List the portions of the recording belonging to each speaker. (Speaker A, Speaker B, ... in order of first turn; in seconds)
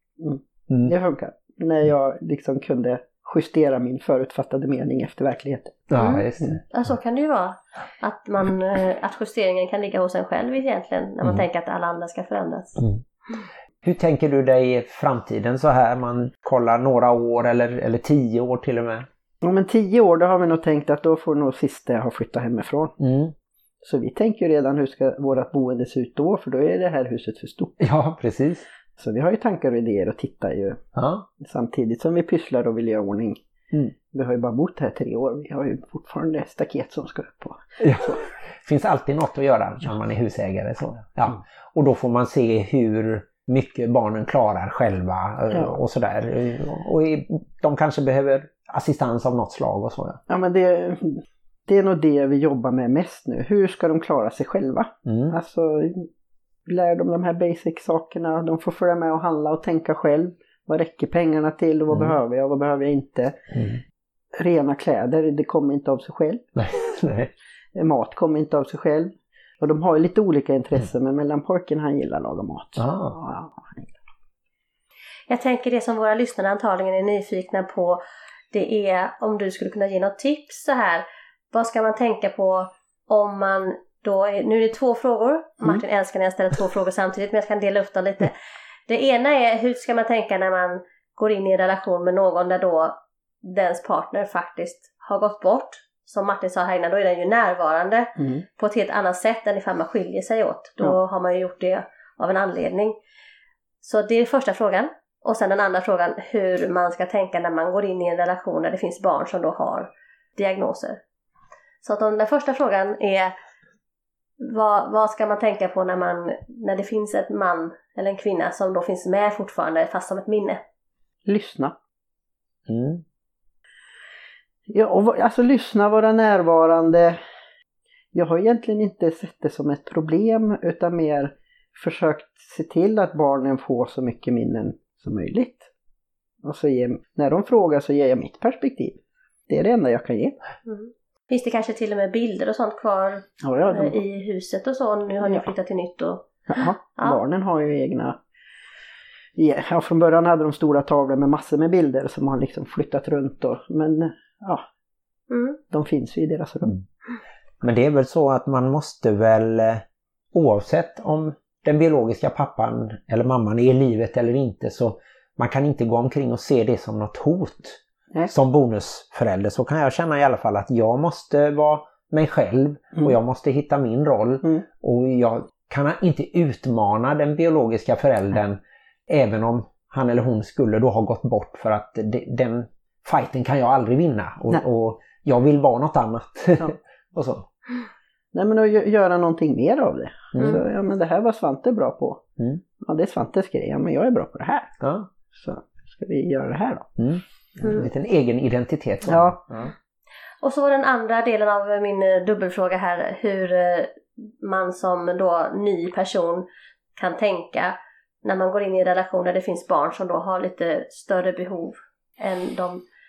Speaker A: 0.2-5.9, 19.4-22.9, 23.8-27.8, 29.0-30.8, 31.4-33.4, 34.1-38.2, 45.5-45.8, 50.3-56.1, 56.6-63.5, 64.4-66.5, 67.8-73.9, 98.2-98.4, 121.2-121.8, 124.7-127.2, 128.1-135.7, 136.4-140.3, 143.4-144.0, 145.2-145.5, 146.5-148.2, 149.4-154.6, 155.7-156.8, 188.3-192.3, 192.8-194.7, 195.3-197.0, 199.0-199.4
Speaker B: 0.7-0.9, 5.9-6.6, 13.8-19.1, 23.0-23.3, 27.8-28.6, 30.9-31.2, 37.8-50.2, 55.0-55.4, 61.9-62.1, 63.5-63.8, 66.5-67.3, 72.8-73.2, 122.7-123.0, 157.6-187.4, 190.3-190.6, 194.8-195.1, 197.0-199.7
Speaker C: 6.0-12.8, 75.3-88.3, 88.9-103.0, 103.8-111.0, 111.8-113.3, 114.4-120.6, 140.7-147.2, 155.3-155.6, 200.4-212.8